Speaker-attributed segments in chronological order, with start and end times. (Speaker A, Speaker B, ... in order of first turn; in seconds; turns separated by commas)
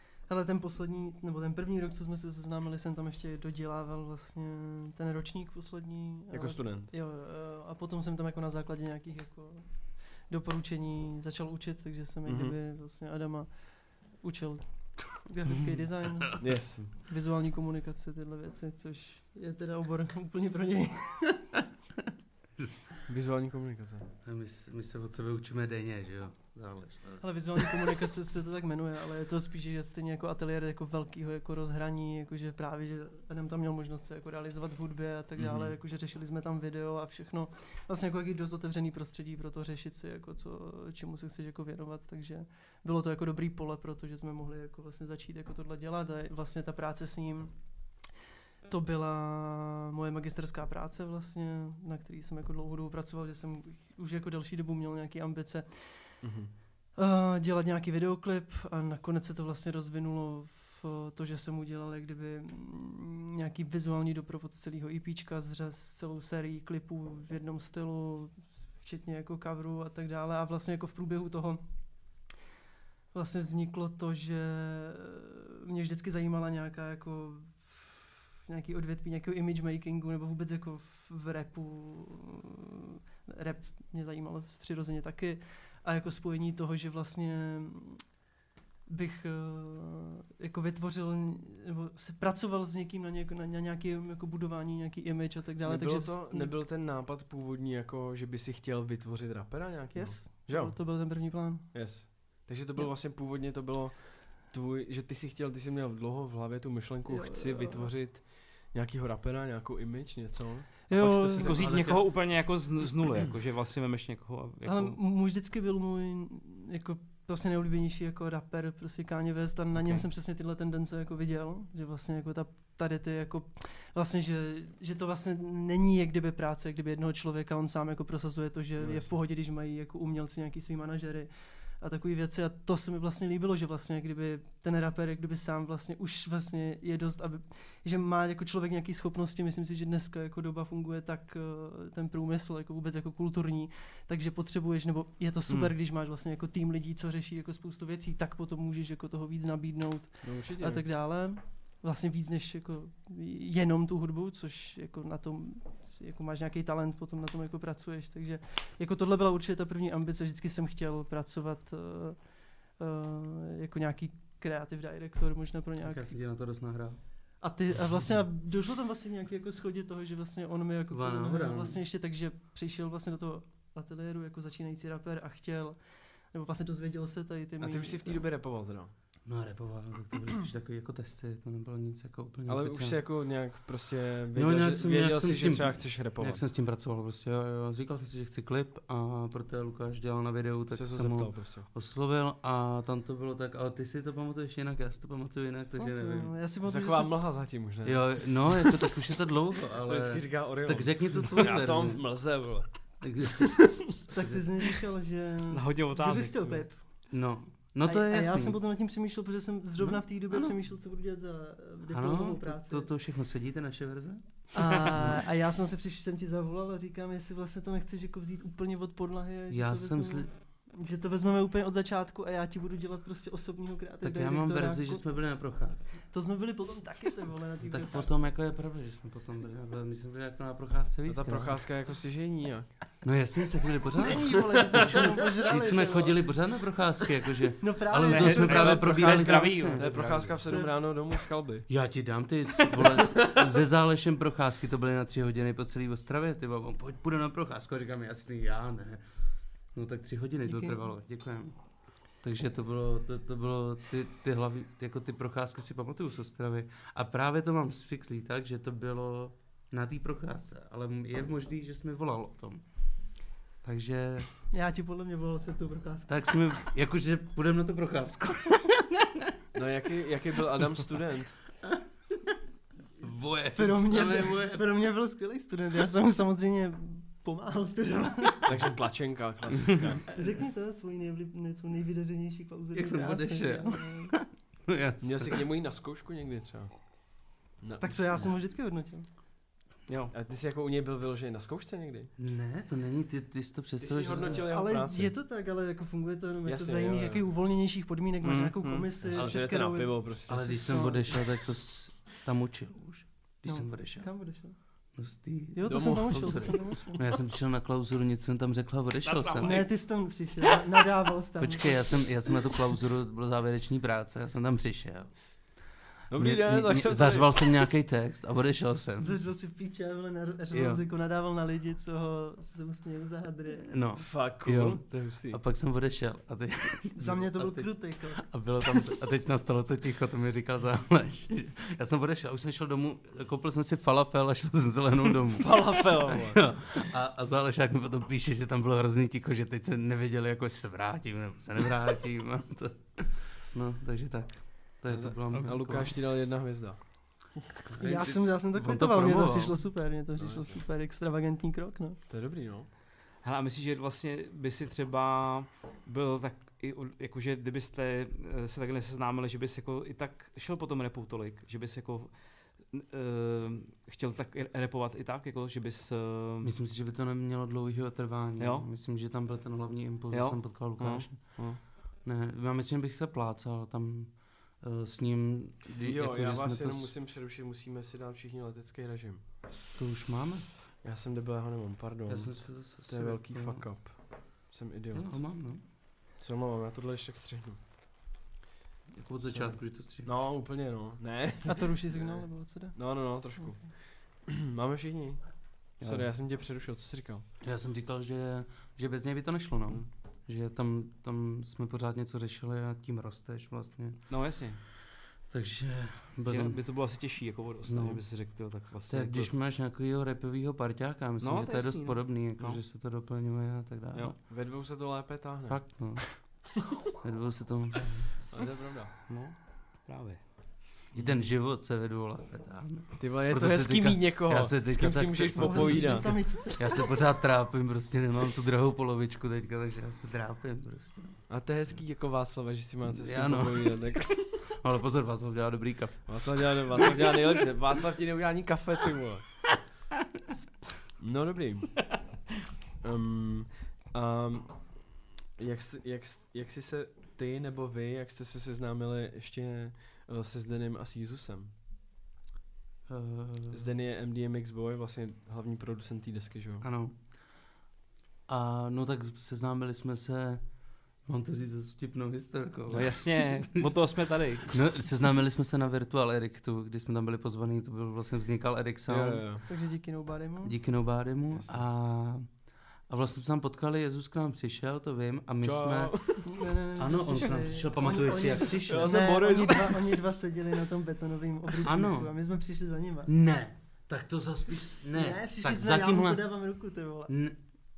Speaker A: 0.2-21.6, Speaker B: 6.3-6.9, Speaker B: 12.2-12.6, Speaker C: 15.5-16.3, Speaker B: 16.4-16.8, Speaker B: 23.1-24.1, Speaker C: 24.2-28.0, Speaker A: 27.2-48.1, Speaker A: 48.7-56.3, Speaker B: 56.2-56.5, Speaker A: 56.9-71.6, Speaker A: 73.1-88.1, Speaker A: 88.9-96.6, Speaker B: 95.6-100.8, Speaker A: 99.9-101.8, Speaker B: 101.7-111.8, Speaker A: 107.0-107.9, Speaker A: 110.9-111.7, Speaker D: 110.9-115.0, Speaker C: 111.5-112.1, Speaker A: 114.7-166.1, Speaker D: 119.7-120.0, Speaker B: 128.8-129.1, Speaker D: 145.5-145.7, Speaker B: 150.2-150.9, Speaker C: 165.8-167.0, Speaker A: 167.4-178.2, Speaker C: 170.9-171.8, Speaker B: 177.6-178.9, Speaker C: 179.2-183.0, Speaker B: 182.4-186.4, Speaker C: 184.3-196.3, Speaker B: 190.7-191.7, Speaker A: 195.8-197.3, Speaker B: 196.7-198.8, Speaker C: 197.8-202.2, Speaker B: 199.8-203.0, Speaker C: 203.0-204.4, Speaker A: 204.1-207.1, Speaker D: 205.5-206.7, Speaker C: 207.1-208.6, Speaker A: 207.8-212.9, Speaker C: 209.8-210.6, Speaker C: 211.9-215.2, Speaker A: 214.5-225.4, Speaker C: 219.5-220.3, Speaker C: 224.0-226.0, Speaker A: 226.1-228.3, Speaker C: 227.6-231.6, Speaker B: 231.1-232.7, Speaker C: 233.0-240.6, Speaker A: 234.0-236.4, Speaker A: 237.6-238.8, Speaker D: 238.0-240.2, Speaker B: 238.4-241.7, Speaker A: 240.5-240.7, Speaker C: 241.7-249.0, Speaker C: 249.7-262.7, Speaker A: 250.4-250.8, Speaker C: 263.6-264.3, Speaker A: 264.5-266.3, Speaker C: 266.1-269.3, Speaker B: 269.5-271.3, Speaker C: 273.0-274.6, Speaker A: 273.5-278.6, Speaker B: 278.4-280.0, Speaker A: 280.1-284.1, Speaker C: 282.7-285.4, Speaker B: 285.0-288.4, Speaker A: 287.8-289.1, Speaker D: 289.9-290.1, Speaker B: 290.1-292.1, Speaker C: 292.2-294.5, Speaker B: 293.8-295.1, Speaker A: 294.2-301.2, Speaker B: 296.4-297.2, Speaker D: 298.2-298.9, Speaker B: 299.1-300.9, Speaker C: 300.3-304.1, Speaker A: 303.4-304.6, Speaker C: 304.9-309.6, Speaker A: 305.5-307.1, Speaker B: 305.6-306.8, Speaker D: 309.1-309.7, Speaker A: 309.4-312.5, Speaker C: 311.4-319.2, Speaker B: 316.1-317.6, Speaker A: 319.0-323.8, Speaker C: 320.5-320.8, Speaker C: 323.7-345.9, Speaker B: 324.0-325.4, Speaker A: 326.9-328.4, Speaker B: 335.4-336.4, Speaker B: 344.9-347.4, Speaker C: 347.7-349.6, Speaker A: 347.8-352.0, Speaker B: 350.2-350.6, Speaker B: 352.1-352.7, Speaker D: 353.2-366.5, Speaker C: 366.4-376.9, Speaker D: 368.4-368.7, Speaker D: 370.1-371.6, Speaker B: 375.8-379.6, Speaker C: 379.7-380.5, Speaker B: 380.8-385.2, Speaker C: 382.1-383.6, Speaker C: 384.9-385.6, Speaker B: 386.2-387.6, Speaker C: 388.9-390.1, Speaker B: 389.2-397.2, Speaker A: 391.4-393.2, Speaker C: 395.8-396.1, Speaker C: 397.4-404.0, Speaker D: 404.1-404.6, Speaker C: 405.2-406.6, Speaker D: 406.3-409.3, Speaker C: 407.6-408.1, Speaker C: 408.9-414.2, Speaker D: 411.2-412.6, Speaker B: 414.0-416.1, Speaker C: 415.5-418.1, Speaker B: 418.2-418.9, Speaker D: 419.1-420.2, Speaker C: 420.9-431.2, Speaker B: 420.9-421.2, Speaker B: 423.0-426.2, Speaker A: 425.3-426.9, Speaker B: 431.3-434.3, Speaker C: 432.9-436.9, Speaker B: 436.1-439.4, Speaker B: 441.0-442.0, Speaker B: 442.8-451.5, Speaker C: 452.9-453.6, Speaker B: 453.5-456.6, Speaker C: 456.6-457.5, Speaker C: 458.3-463.8, Speaker D: 462.7-464.6, Speaker C: 464.5-469.5, Speaker B: 468.9-469.4, Speaker A: 469.5-470.6, Speaker C: 470.4-476.2, Speaker B: 471.3-471.6, Speaker B: 475.4-476.4, Speaker A: 476.2-483.1, Speaker C: 476.8-479.0, Speaker B: 478.6-480.0, Speaker C: 481.6-482.1, Speaker C: 483.1-486.3, Speaker A: 484.9-487.1, Speaker C: 487.1-487.4